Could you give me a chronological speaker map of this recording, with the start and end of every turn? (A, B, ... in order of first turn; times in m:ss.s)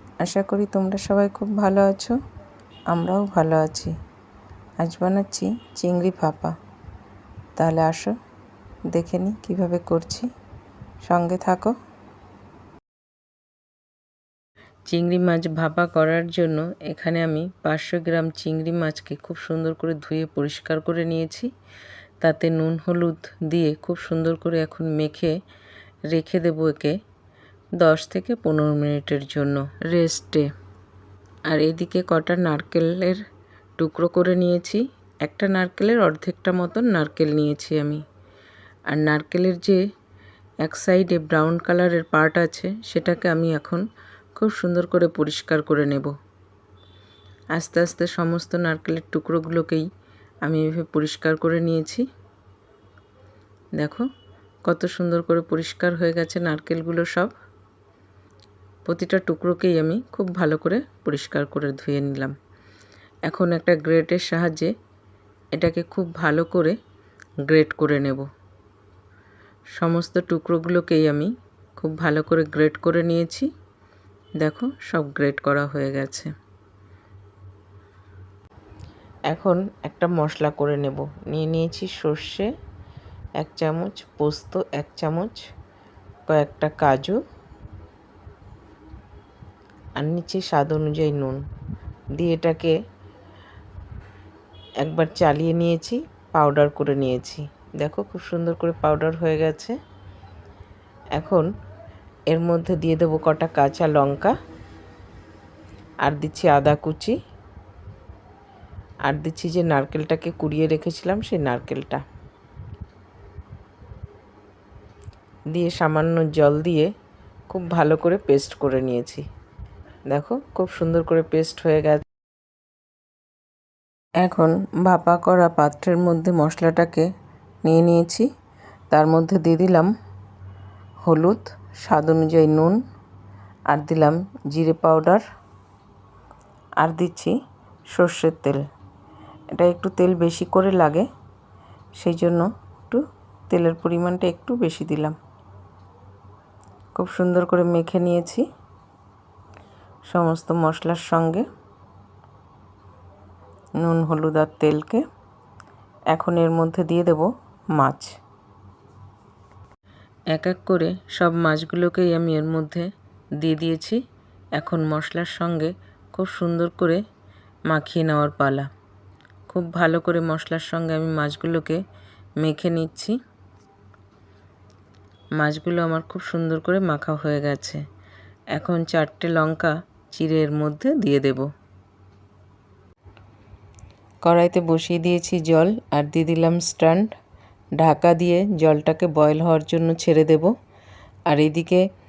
0:00.2-0:02.2 A
0:02.9-0:04.0 A
0:04.8-0:06.5 A
0:07.6-0:08.1 A
0:08.9-0:10.3 A
0:11.0-0:11.7 A
0:14.9-0:21.5 A
0:22.2-0:25.4 A
0:26.1-0:27.0 A
0:27.8-0:30.5 A
0:31.5-0:33.2 A
0:33.8-0:38.0 A
0:38.9-0:39.8 A
0:40.6-0:43.8 A
0:44.4-0:46.1 A
0:47.5-0:49.9 A
0:50.4-0:52.0 A
0:53.8-0:54.1 A
0:54.6-0:57.3 A
0:58.8-1:02.3 A
1:03.2-1:04.7 A
1:05.5-1:06.8 A
1:07.4-1:08.3 A
1:09.8-1:13.5 A
1:14.4-1:16.3 A
1:19.3-1:22.5 A
1:23.4-1:25.4 A
1:26.3-1:27.2 A
1:30.0-1:31.4 A
1:32.2-1:32.8 A
1:34.8-1:39.7 A
1:41.2-1:41.5 A
1:42.3-1:44.3 A
1:46.0-1:47.2 A
1:49.0-1:52.0 A
1:55.5-1:56.9 A
1:57.5-1:59.2 A
2:00.1-2:02.0 A
2:04.2-2:07.1 A
2:07.6-2:08.3 A
2:08.9-2:09.9 A
2:11.0-2:12.8 A
2:13.7-2:15.2 A
2:16.8-2:17.4 A
2:17.9-2:18.6 A
2:19.5-2:21.1 A
2:22.0-2:25.2 A
2:27.0-2:28.4 A
2:30.1-2:31.4 A
2:33.8-2:35.0 A
2:36.1-2:38.1 A
2:40.3-2:44.0 A
2:44.6-2:47.0 A
2:47.7-2:48.7 A
2:49.5-2:51.8 A
2:52.4-2:53.2 A
2:55.4-2:57.8 A
2:58.5-3:01.5 A
3:04.2-3:07.1 A
3:07.8-3:10.5 A
3:11.3-3:11.8 A